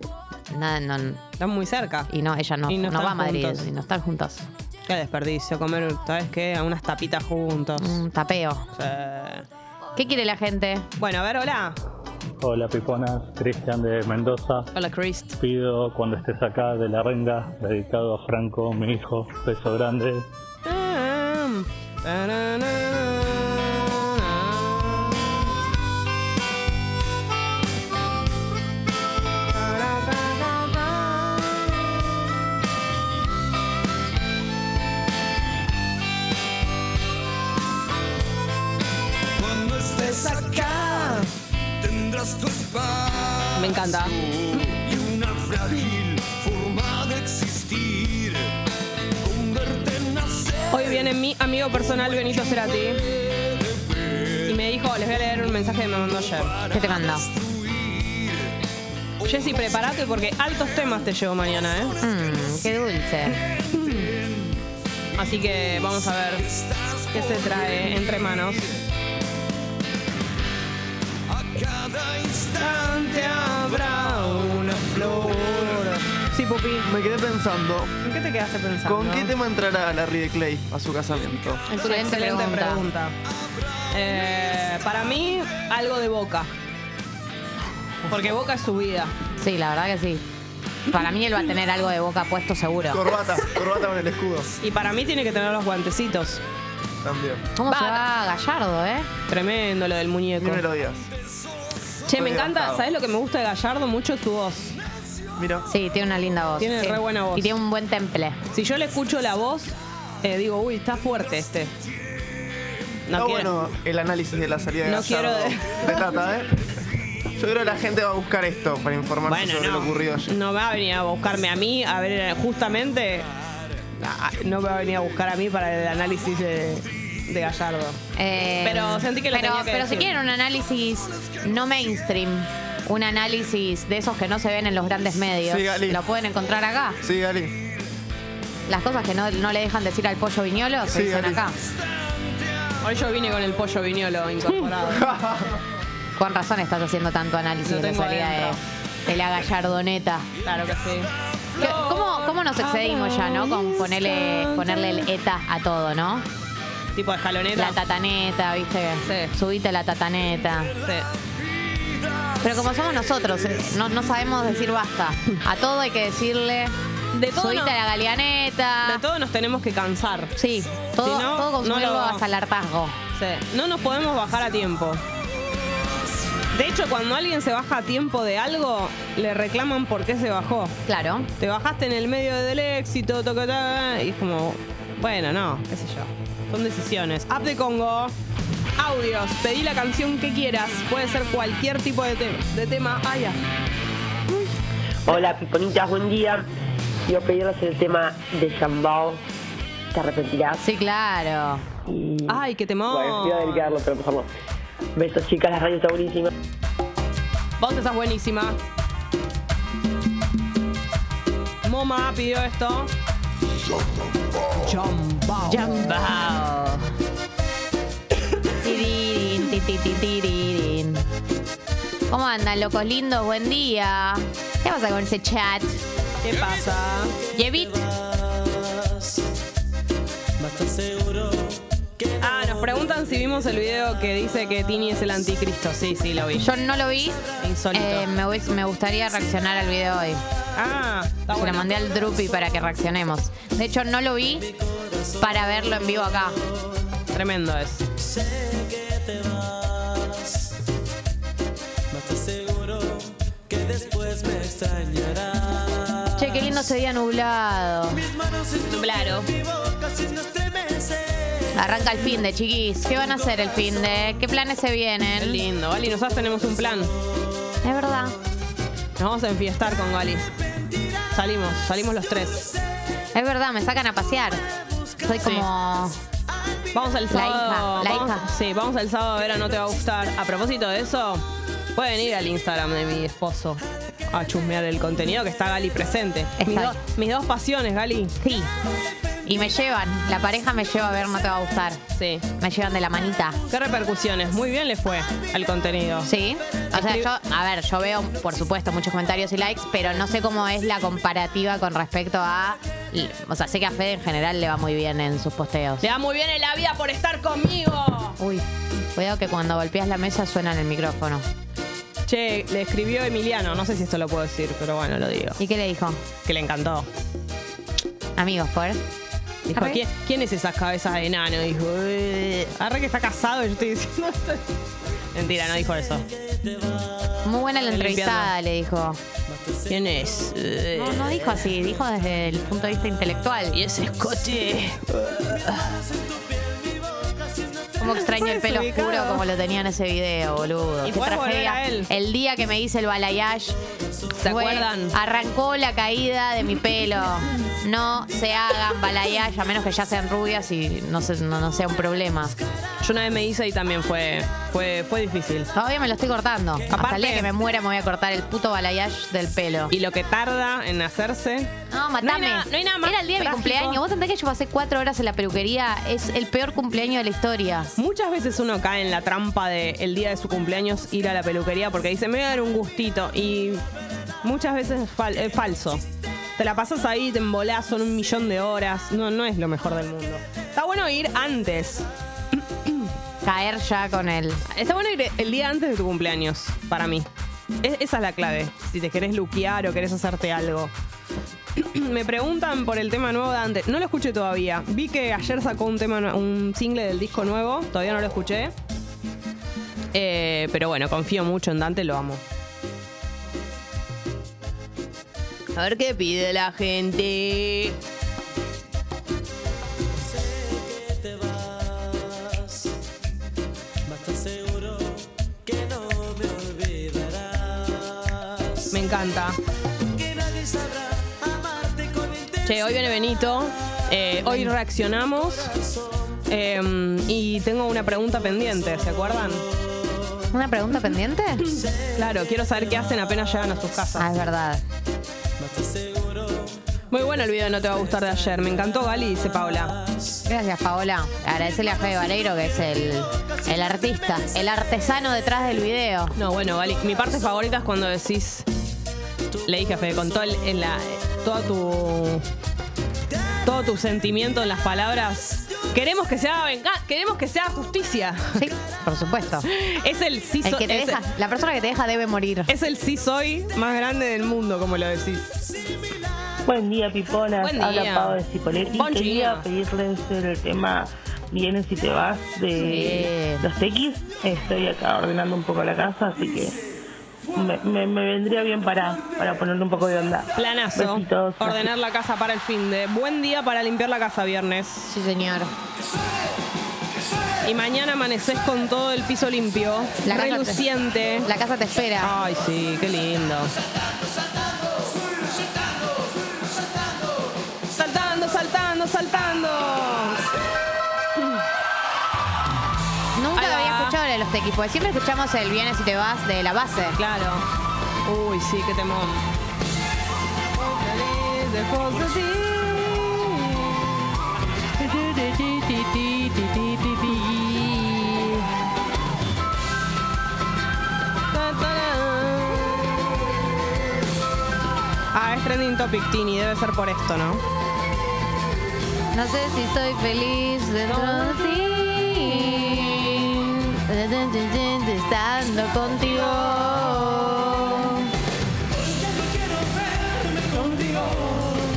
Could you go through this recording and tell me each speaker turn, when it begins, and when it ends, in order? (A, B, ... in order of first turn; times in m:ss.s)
0:00.5-0:01.2 A
0:01.4-0:02.1 B
0:02.1-0:04.5 A
0:02.7-0:03.6 B
0:04.9-0:08.0 B
0:07.8-0:08.6 A
0:08.7-0:09.4 B
0:10.0-0:10.8 A
0:11.0-0:11.8 B
0:12.4-0:14.7 C
0:14.7-0:15.3 B
0:15.4-0:20.2 C
0:20.6-0:24.5 B
0:29.7-0:30.3 B
0:43.5-0:44.1 B
0:50.7-0:53.0 B
0:54.5-0:56.5 B
0:56.7-0:57.2 A
0:59.2-1:02.0 B
1:02.0-1:03.4 A
1:03.7-1:04.0 B
1:05.2-1:06.4 B
1:07.1-1:08.7 B
1:12.6-1:16.9 B
1:16.8-1:17.9 D
1:18.0-1:19.3 B
1:18.8-1:21.6 D
1:21.7-1:22.8 A
1:21.8-1:23.1 B
1:23.9-1:26.5 B
1:28.1-1:29.1 B
1:29.4-1:30.2 A
1:30.9-1:33.0 A
1:32.9-1:34.5 D
1:34.6-1:36.4 B
1:37.0-1:37.4 D
1:37.6-1:39.1 A
1:37.7-1:38.0 B
1:39.3-1:40.6 B
1:40.4-1:41.1 D
1:42.1-1:44.8 B
1:42.2-1:42.8 D
1:45.4-1:45.7 D
1:45.7-1:48.4 A
1:46.6-1:47.5 B
1:48.5-1:51.7 B
1:53.1-1:53.5 B
1:53.2-1:56.5 D
1:54.8-1:56.0 B
1:57.4-2:00.3 D
1:59.2-2:03.2 B
2:04.0-2:08.0 B
2:08.2-2:17.0 A
2:08.6-2:10.1 B
2:15.4-2:16.0 D
2:17.0-2:17.5 D
2:18.7-2:21.6 A
2:20.9-2:21.4 D
2:22.8-2:25.0 B
2:24.9-2:25.5 D
2:26.2-2:30.3 A
2:27.6-2:28.6 B
2:30.4-2:35.0 B
2:31.6-2:36.2 A
2:37.0-2:37.8 B
2:37.6-2:40.7 A
2:39.0-2:39.3 B
2:42.4-2:46.8 A
2:47.1-2:47.8 B
2:47.3-2:49.0 A
2:48.8-2:50.3 B
2:50.4-2:53.0 A
2:51.0-2:52.2 B
2:53.2-2:55.0 B
2:56.5-3:00.8 B
3:00.8-3:01.3 A
3:01.4-3:08.1 B
3:08.8-3:13.4 B
3:15.1-3:16.4 E
3:17.1-3:19.2 E
3:19.9-3:20.6 E
3:20.6-3:21.6 A
3:21.9-3:22.2 E
3:22.3-3:23.7 B
3:22.9-3:24.3 E
3:25.0-3:26.3 E
3:27.6-3:28.6 B
3:31.6-3:32.9 B
3:34.6-3:35.9 B
3:35.5-3:36.8 A
3:38.6-3:41.0 A
3:42.1-3:45.8 A
3:46.2-3:47.1 B
3:47.3-3:47.8 A
3:50.6-3:51.0 F
3:52.2-3:56.4 B
3:56.4-4:00.2 A
3:57.4-3:58.1 B
4:00.6-4:01.7 B
4:01.3-4:04.5 A
4:05.2-4:06.4 A
4:07.1-4:07.8 B
4:08.8-4:09.2 F
4:12.0-4:15.5 F
4:16.2-4:18.0 A
4:18.7-4:19.3 B
4:20.0-4:20.8 F
4:21.5-4:25.4 A
4:25.2-4:26.9 B
4:27.6-4:28.1 A
4:29.0-4:30.3 B
4:31.1-4:32.5 B
4:33.1-4:34.4 A
4:35.0-4:36.0 A
4:36.7-4:41.2 B
4:37.1-4:38.2 A
4:41.8-4:48.1 B
4:46.4-4:46.8 A
4:48.2-4:48.5 A
4:49.2-4:51.8 A
4:51.9-4:52.2 B
4:52.4-4:53.4 A
4:53.5-4:56.1 B
4:56.0-5:05.8 A
4:56.7-4:57.1 B
5:05.8-5:08.2 B
5:08.2-5:11.2 A
5:12.1-5:15.4 B
5:15.4-5:16.0 A
5:16.2-5:16.9 B
5:18.2-5:18.8 A
5:19.5-5:19.8 A
5:19.5-5:24.4 B
5:25.1-5:26.0 B
5:27.2-5:29.0 A
5:27.7-5:28.3 B
5:29.7-5:31.1 B
5:30.7-5:33.6 A
5:33.5-5:35.6 B
5:37.8-5:43.6 A
5:37.9-5:39.2 B
5:40.8-5:41.9 B
5:44.2-5:44.9 B
5:44.2-5:52.4 A
5:52.8-5:55.5 B
5:55.5-5:59.7 A
5:56.7-5:57.3 B
5:59.7-6:01.5 B
6:01.7-6:07.7 A
6:02.0-6:03.8 B
6:07.8-6:13.6 B
6:14.2-6:15.8 B
6:16.4-6:21.9 B
6:22.4-6:22.9 B
6:23.2-6:24.4 A
6:24.5-6:27.1 B
6:27.6-6:30.7 B
6:31.6-6:38.5 B
6:39.9-6:42.2 B
6:45.5-6:47.7 B
6:50.8-6:51.9 F
6:53.9-6:54.8 F
6:55.5-6:57.6 F
6:58.7-6:59.4 B
7:00.4-7:00.8 F
7:01.6-7:02.3 F
7:02.4-7:05.5 B
7:04.2-7:04.5 A
7:06.3-7:09.4 B
7:10.3-7:11.4 A
7:11.5-7:14.1 B
7:14.0-7:14.6 A
7:16.9-7:19.8 B
7:20.2-7:26.1 A
7:26.2-7:28.4 B
7:29.4-7:32.2 B
7:33.4-7:38.4 B
7:38.4-7:39.4 A
7:39.5-7:41.0 B
7:40.4-7:42.5 A
7:42.5-7:45.3 B
7:46.5-7:56.6 G
7:47.4-7:48.2 B
7:48.8-7:49.4 B
7:52.6-7:53.4 A
7:57.3-8:01.7 G
8:00.4-8:04.9 B
8:04.9-8:05.5 A
8:07.4-8:11.3 B
8:10.0-8:10.6 A
8:11.2-8:12.1 A
8:12.0-8:13.5 B
8:17.7-8:20.2 B
8:23.2-8:27.0 A
8:23.4-8:24.0 B
8:27.0-8:27.4 B
8:28.0-8:29.2 B
8:30.6-8:33.8 B
8:34.8-8:38.3 B
8:41.3-8:42.9 B
8:45.1-8:47.4 B
8:49.1-8:58.1 A
8:50.8-8:51.5 B